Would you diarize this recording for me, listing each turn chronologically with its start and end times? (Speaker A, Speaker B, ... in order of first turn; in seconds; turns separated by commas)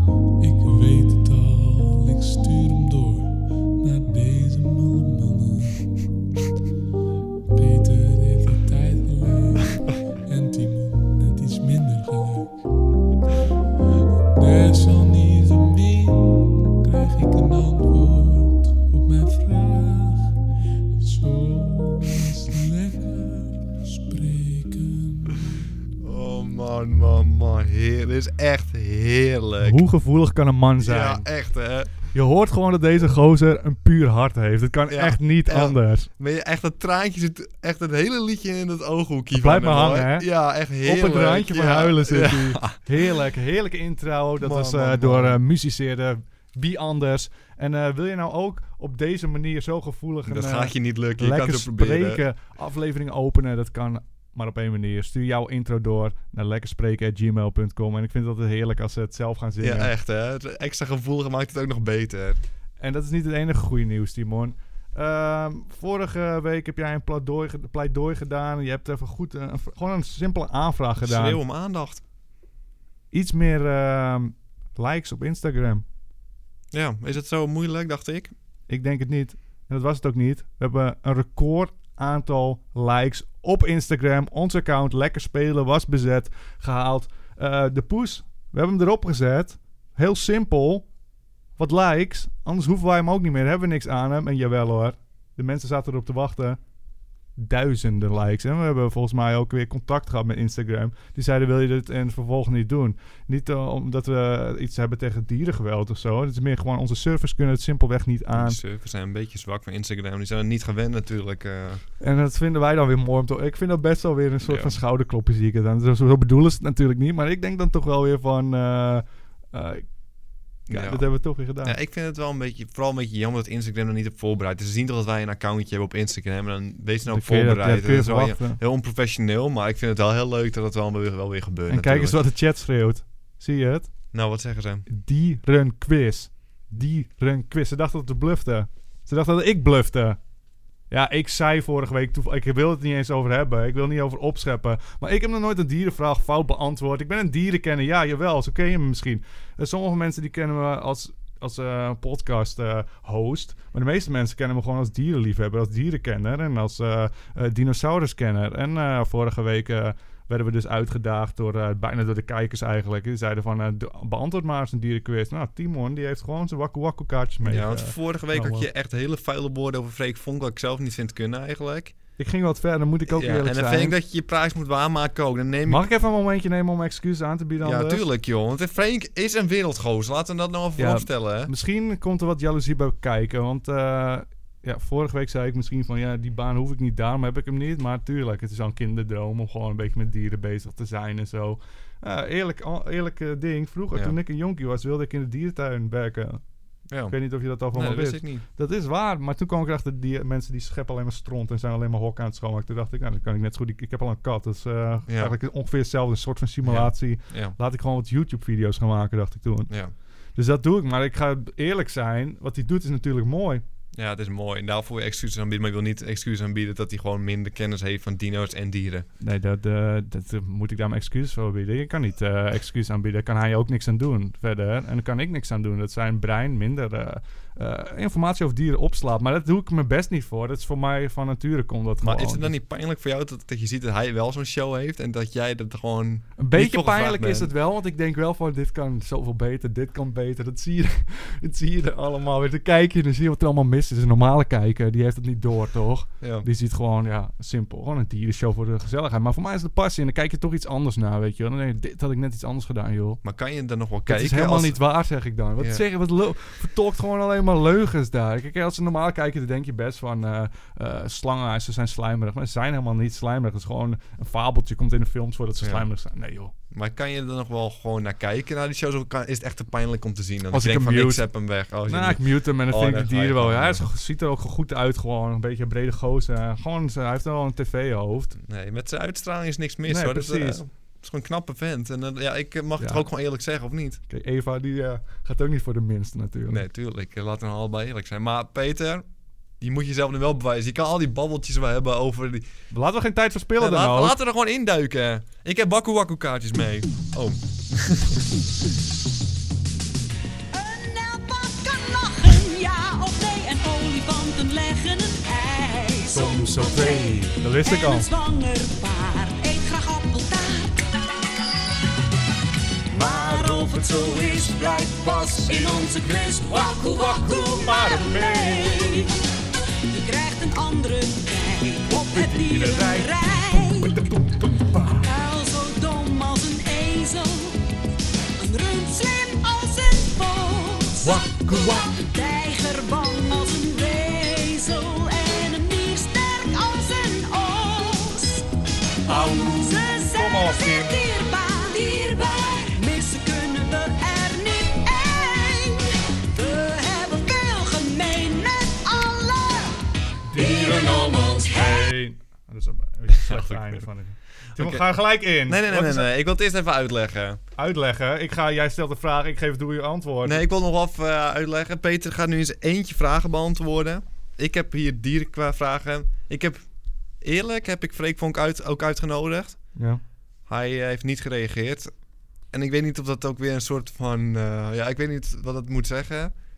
Speaker A: 0.4-6.0, Speaker A: 7.5-12.6, Speaker A: 14.3-20.4, Speaker A: 20.9-25.6, Speaker B: 26.0-29.8, Speaker C: 29.6-31.3, Speaker B: 30.8-31.9, Speaker C: 32.1-36.1, Speaker B: 34.9-42.8, Speaker C: 39.3-40.3, Speaker C: 40.8-59.9, Speaker B: 44.4-45.4, Speaker B: 50.2-52.2, Speaker B: 59.6-62.4, Speaker C: 62.8-71.4, Speaker B: 71.0-72.0, Speaker C: 73.1-75.8, Speaker B: 76.7-78.3, Speaker C: 78.7-90.9, Speaker C: 91.6-96.6, Speaker C: 97.4-108.6, Speaker B: 108.3-111.8, Speaker C: 112.0-119.9, Speaker B: 114.4-114.8, Speaker C: 120.7-121.8, Speaker B: 120.7-132.2, Speaker C: 127.0-128.6, Speaker C: 131.7-133.9, Speaker B: 134.1-134.8, Speaker C: 134.9-140.2, Speaker C: 140.9-168.7, Speaker B: 167.4-171.9, Speaker C: 172.2-173.9, Speaker B: 173.1-175.8, Speaker C: 175.7-178.0, Speaker B: 177.6-181.5, Speaker C: 180.8-196.4, Speaker B: 196.9-197.2, Speaker C: 197.1-209.7, Speaker B: 197.7-198.4, Speaker B: 205.1-205.3, Speaker B: 206.6-207.6, Speaker C: 210.3-213.6, Speaker B: 213.9-219.1, Speaker C: 219.2-232.5, Speaker B: 232.0-237.5, Speaker C: 236.4-253.2, Speaker B: 246.2-246.4, Speaker B: 253.2-254.8, Speaker C: 254.1-266.5, Speaker B: 265.6-265.9, Speaker B: 266.7-273.9, Speaker C: 270.5-271.2, Speaker C: 271.9-278.4, Speaker B: 278.4-284.0, Speaker C: 279.9-280.6, Speaker C: 282.8-283.1, Speaker C: 284.1-286.6, Speaker B: 286.5-289.1, Speaker B: 289.6-292.5, Speaker C: 292.7-294.2, Speaker B: 293.6-298.3, Speaker D: 300.5-310.8, Speaker C: 306.1-308.1, Speaker D: 312.9-319.1, Speaker C: 312.9-319.0, Speaker D: 319.9-324.0, Speaker C: 321.9-325.1, Speaker D: 325.0-327.6, Speaker D: 328.4-338.5, Speaker C: 331.0-331.9, Speaker D: 339.0-351.9, Speaker C: 339.1-341.0, Speaker C: 350.3-356.1, Speaker B: 353.1-353.9, Speaker B: 354.5-357.4, Speaker C: 357.6-360.4, Speaker B: 360.2-366.6, Speaker B: 367.2-369.6, Speaker C: 369.8-370.0, Speaker B: 370.4-371.9, Speaker B: 372.5-376.3